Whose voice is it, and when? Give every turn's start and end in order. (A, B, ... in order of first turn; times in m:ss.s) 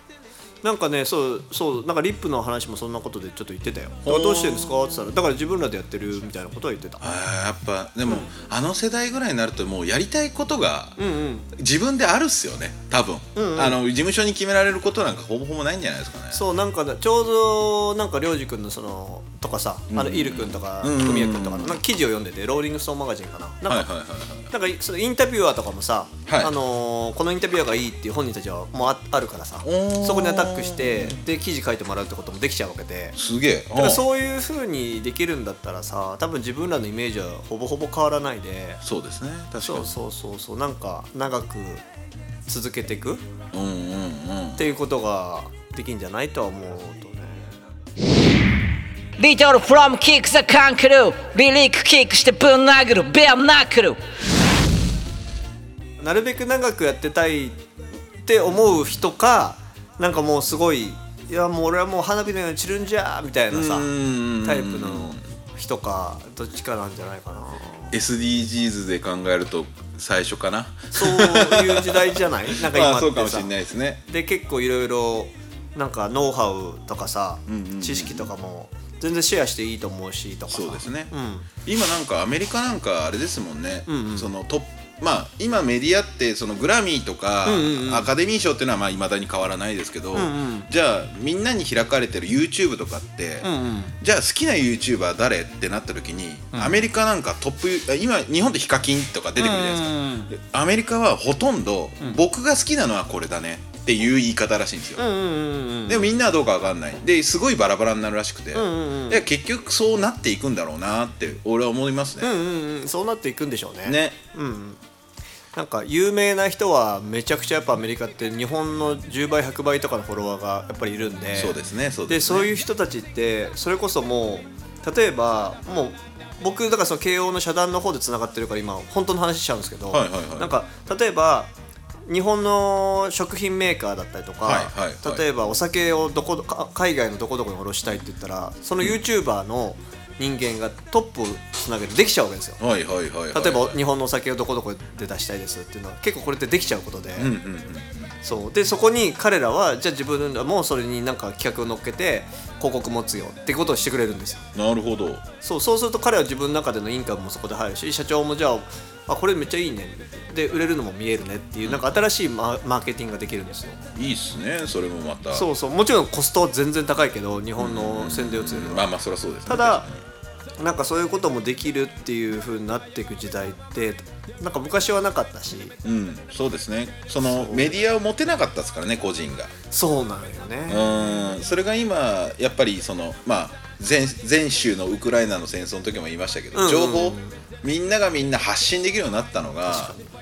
0:00.6-0:07.0 A
0:04.0-0:04.8 B
0:07.0-0:11.0 B
0:08.1-0:08.3 A
0:11.0-0:11.5 A
0:11.6-0:16.4 B
0:13.4-0:13.8 A
0:16.3-0:23.9 A
0:19.9-0:21.8 B
0:23.7-0:24.5 B
0:24.5-0:33.2 A
0:26.3-0:26.5 B
0:29.6-0:31.2 B
0:33.2-0:34.0 B
0:33.8-0:38.8 A
0:38.8-0:39.9 B
0:39.6-0:41.8 A
0:42.5-0:43.2 A
0:43.5-0:44.7 B
0:44.6-0:47.6 A
0:49.2-0:54.0 C
0:56.0-0:57.6 A
0:58.2-1:07.9 A
1:03.5-1:05.2 B
1:07.9-1:14.0 B
1:10.9-1:13.5 A
1:14.1-1:21.5 A
1:17.5-1:18.3 B
1:20.5-1:21.1 B
1:21.6-1:33.5 B
1:23.9-1:24.3 A
1:27.4-1:28.1 A
1:30.1-1:30.7 A
1:33.4-1:34.0 A
1:34.0-1:45.0 B
1:36.5-1:36.8 A
1:39.4-1:40.3 A
1:45.0-1:46.1 A
1:45.9-1:52.3 B
1:48.5-1:49.2 A
1:52.2-1:54.8 A
1:53.8-1:54.2 B
1:55.5-2:11.5 A
2:01.3-2:02.6 B
2:09.9-2:10.5 B
2:12.1-2:22.6 A
2:14.4-2:15.2 B
2:22.6-2:23.8 B
2:23.3-2:27.3 A
2:27.2-2:28.1 B
2:28.2-2:34.5 A
2:34.6-2:35.2 B
2:35.4-2:43.8 A
2:41.6-2:42.0 B
2:43.9-2:45.4 B
2:45.3-2:48.9 A
2:47.6-2:50.0 B
2:49.5-2:49.9 A
2:50.6-2:55.8 A
2:55.8-2:59.5 B
2:57.2-2:57.8 A
2:59.7-3:01.1 A
3:00.7-3:10.0 B
3:06.5-3:07.4 A
3:09.7-3:10.1 A